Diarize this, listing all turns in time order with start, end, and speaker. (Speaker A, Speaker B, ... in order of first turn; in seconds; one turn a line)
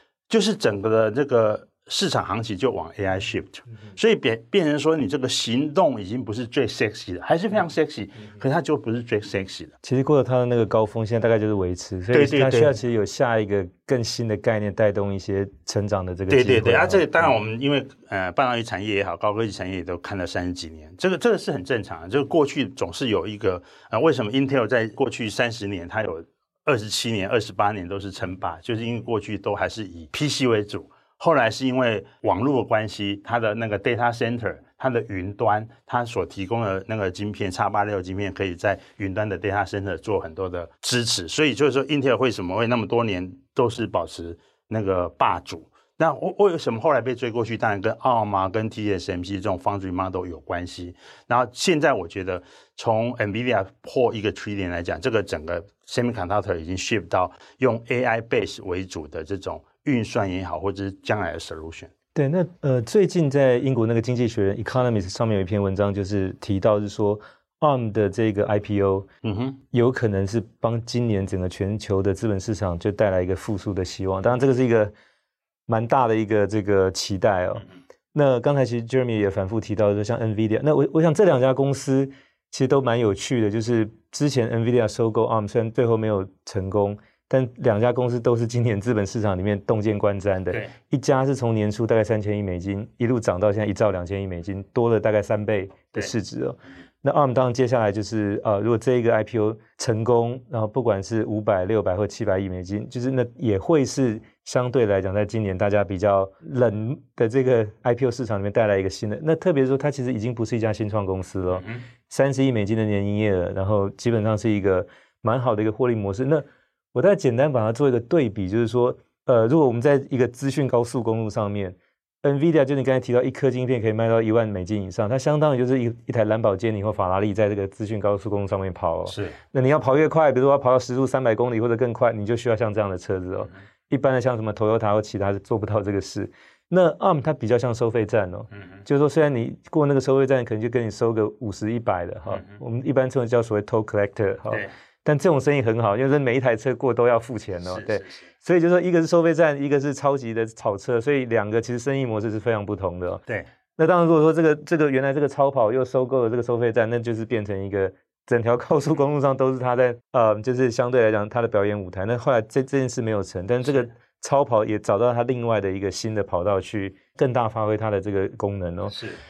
Speaker A: 0.3-9.7
Speaker B: 9.8-17.3
Speaker A: 12.1-12.7
Speaker A: 16.3-61.9
Speaker B: 62.1-69.1
Speaker A: 69.2-69.6
Speaker B: 69.7-74.9
Speaker B: 75.7-153.2
Speaker A: 129.1-129.4
Speaker A: 147.7-148.2
Speaker B: 153.8-169.0
Speaker A: 168.9-169.2